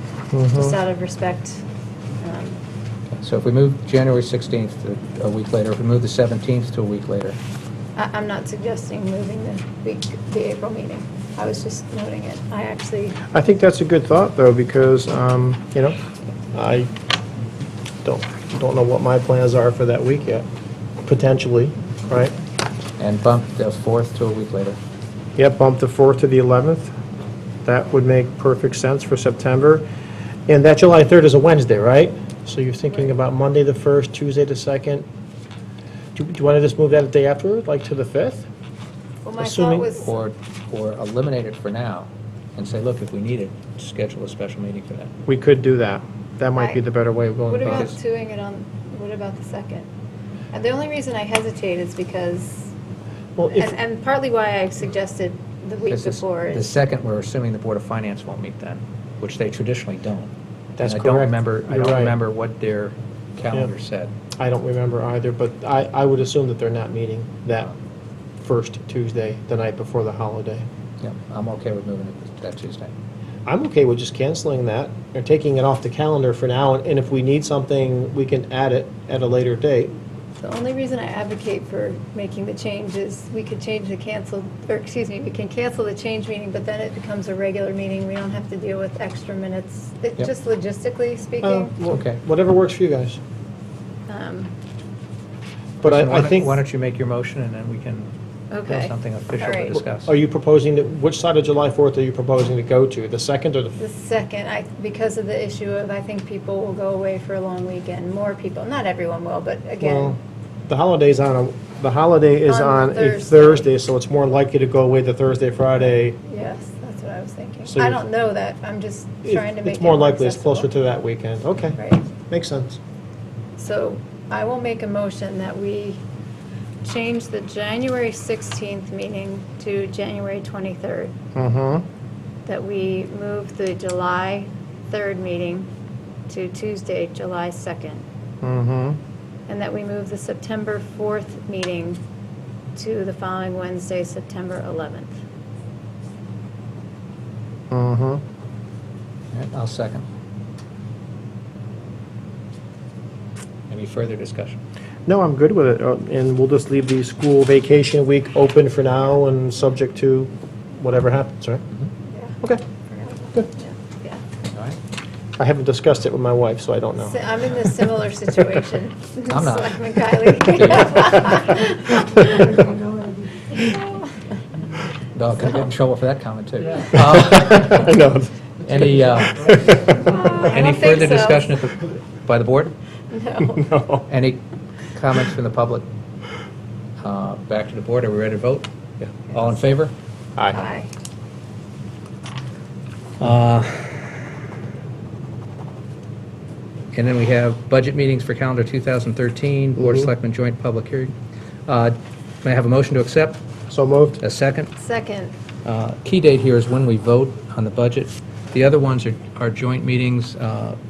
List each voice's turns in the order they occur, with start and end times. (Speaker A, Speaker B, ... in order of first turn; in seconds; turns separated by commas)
Speaker A: 0.3-0.8, Speaker B: 0.5-1.6, Speaker B: 2.2-2.6, Speaker C: 3.2-7.4, Speaker B: 8.0-13.2, Speaker A: 13.3-16.0, Speaker A: 16.5-16.9, Speaker A: 18.0-20.4, Speaker A: 21.1-22.3, Speaker C: 23.0-24.8, Speaker A: 25.4-26.9, Speaker A: 27.6-29.9, Speaker A: 30.5-35.0, Speaker A: 36.1-38.5, Speaker B: 39.2-40.2, Speaker A: 39.4-39.9, Speaker C: 40.0-45.1, Speaker A: 45.3-47.9, Speaker B: 46.6-46.8, Speaker B: 47.5-49.9, Speaker C: 47.7-48.0, Speaker B: 50.5-52.7, Speaker A: 53.4-53.7, Speaker B: 53.5-56.7, Speaker C: 55.9-64.1, Speaker A: 60.8-62.1, Speaker A: 64.4-67.7, Speaker A: 68.4-70.7, Speaker C: 71.0-72.9, Speaker A: 73.5-79.9, Speaker B: 80.4-91.7, Speaker A: 91.4-93.2, Speaker C: 91.9-92.2, Speaker B: 94.1-94.5, Speaker C: 95.8-98.1, Speaker A: 95.8-96.6, Speaker B: 98.5-99.8, Speaker C: 98.7-100.1, Speaker A: 99.9-103.8, Speaker B: 103.8-110.2, Speaker A: 109.8-110.2, Speaker A: 110.7-116.2, Speaker B: 112.5-113.7, Speaker B: 116.2-120.7, Speaker A: 117.7-118.0, Speaker A: 119.2-122.8, Speaker B: 121.8-122.1, Speaker B: 123.6-126.0, Speaker B: 126.8-131.1, Speaker A: 131.3-131.8, Speaker B: 132.5-135.7, Speaker B: 136.3-138.1, Speaker A: 138.4-139.0, Speaker B: 139.5-142.0, Speaker B: 142.8-145.2, Speaker A: 147.7-148.2, Speaker C: 149.3-150.1, Speaker C: 153.7-154.6, Speaker A: 155.1-161.6, Speaker B: 162.1-164.2, Speaker C: 164.5-164.8, Speaker A: 165.4-167.7, Speaker B: 167.1-174.1, Speaker C: 169.3-171.4, Speaker C: 175.1-177.9, Speaker A: 177.3-178.3, Speaker C: 178.7-182.7, Speaker A: 179.4-180.0, Speaker B: 179.9-181.6, Speaker B: 183.1-183.7, Speaker A: 183.6-184.1, Speaker C: 184.1-185.8, Speaker C: 187.0-188.7, Speaker C: 189.3-189.9, Speaker B: 190.5-190.9, Speaker C: 193.2-194.2, Speaker C: 196.9-201.1, Speaker A: 199.8-200.1, Speaker C: 201.7-203.4, Speaker A: 203.7-204.2, Speaker C: 204.2-204.7, Speaker B: 204.8-205.3, Speaker C: 205.6-210.8